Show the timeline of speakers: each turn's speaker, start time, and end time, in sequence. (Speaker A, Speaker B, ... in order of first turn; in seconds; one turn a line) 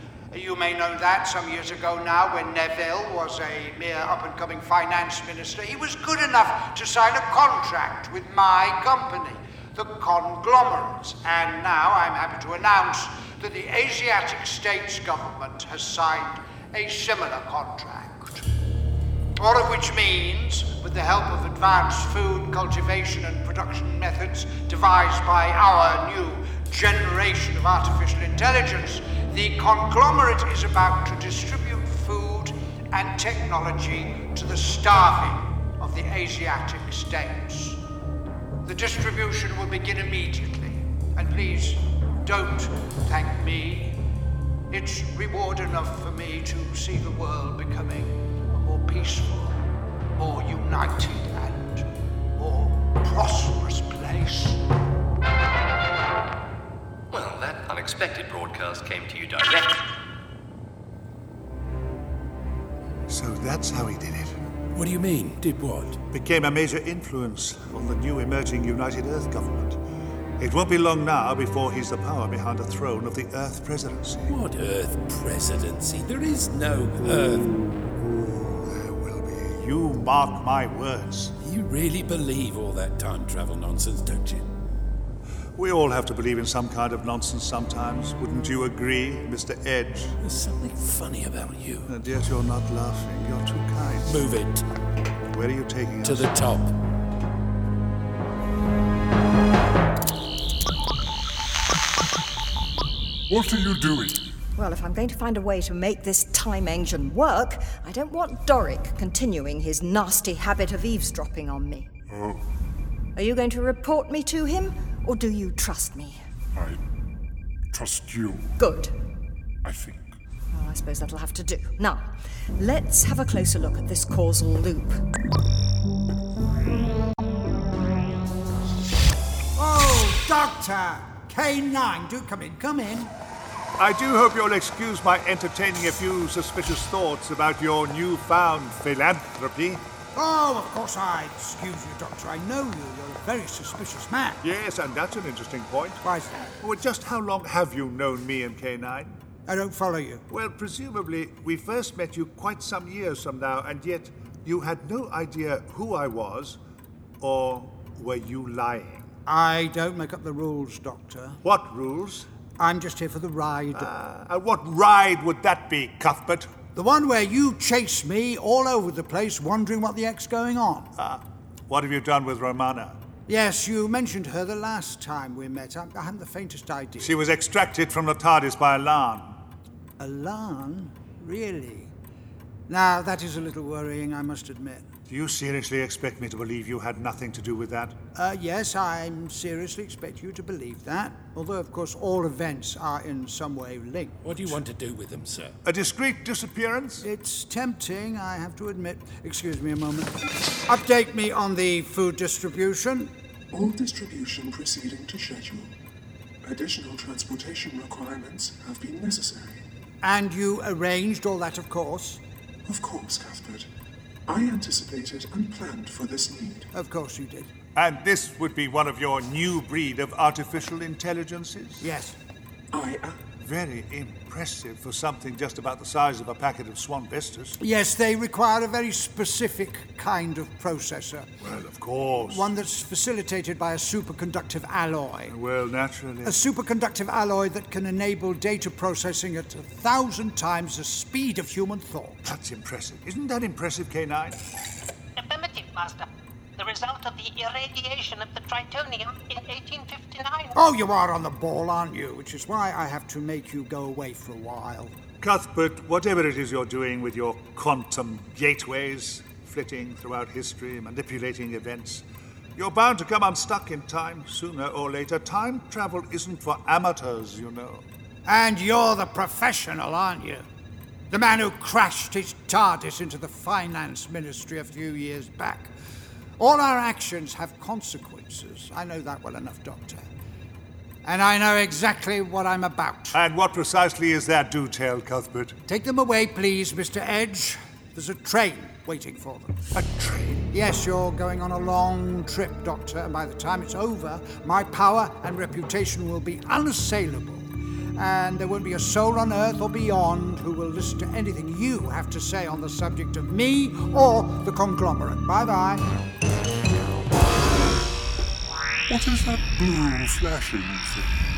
Speaker A: 0.3-18.4
Speaker A: 19.4-37.8
Speaker A: 38.6-44.0
Speaker A: 44.7-49.6
Speaker A: 50.2-54.6
Speaker B: 57.1-59.7
Speaker C: 63.1-64.4
Speaker D: 64.7-66.0
Speaker C: 66.1-69.8
Speaker C: 70.4-74.3
Speaker D: 74.3-77.7
Speaker C: 78.0-81.3
Speaker D: 81.4-84.5
Speaker C: 85.5-90.2
Speaker D: 90.2-91.9
Speaker C: 91.9-94.2
Speaker D: 94.0-94.6
Speaker C: 95.3-96.3
Speaker D: 96.0-96.7
Speaker E: 103.3-104.2
Speaker F: 104.6-111.9
Speaker E: 112.1-112.4
Speaker F: 113.2-116.2
Speaker E: 116.5-116.8
Speaker E: 117.7-118.5
Speaker F: 118.6-118.9
Speaker E: 119.6-120.1
Speaker F: 120.5-122.0
Speaker F: 122.6-125.0
Speaker A: 129.6-133.1
Speaker C: 133.8-139.8
Speaker A: 140.1-144.4
Speaker C: 144.4-146.0
Speaker A: 146.0-146.5
Speaker C: 146.6-149.2
Speaker A: 149.5-150.2
Speaker C: 150.3-156.6
Speaker C: 157.2-159.1
Speaker A: 159.2-161.4
Speaker C: 161.4-162.3
Speaker A: 162.6-163.9
Speaker C: 163.7-166.6
Speaker A: 166.7-170.9
Speaker C: 171.0-173.0
Speaker A: 173.3-177.2
Speaker C: 177.0-179.4
Speaker A: 180.0-181.9
Speaker A: 182.7-184.9
Speaker C: 185.1-188.1
Speaker A: 188.1-194.6
Speaker D: 194.2-195.6
Speaker C: 195.6-197.1
Speaker A: 197.0-200.1
Speaker A: 200.7-203.1
Speaker G: 203.5-205.7
Speaker G: 206.4-209.6
Speaker A: 210.0-212.2
Speaker G: 212.7-213.7
Speaker G: 214.3-216.7
Speaker A: 216.7-217.5
Speaker C: 217.7-221.9
Speaker A: 221.8-222.2
Speaker G: 222.7-223.2
Speaker C: 223.4-227.6
Speaker A: 227.6-231.3
Speaker C: 231.4-232.5
Speaker A: 232.2-235.3
Speaker C: 235.3-236.3
Speaker A: 236.2-242.2
Speaker C: 242.2-244.4
Speaker H: 245.2-250.5
Speaker A: 250.5-254.9
Speaker C: 255.2-262.0
Speaker C: 262.6-267.8
Speaker A: 268.2-270.4
Speaker A: 271.1-275.7
Speaker A: 276.4-280.1
Speaker A: 281.0-283.2
Speaker C: 283.1-285.6
Speaker A: 285.6-289.5
Speaker C: 289.7-290.5
Speaker A: 290.5-305.8
Speaker E: 308.9-311.1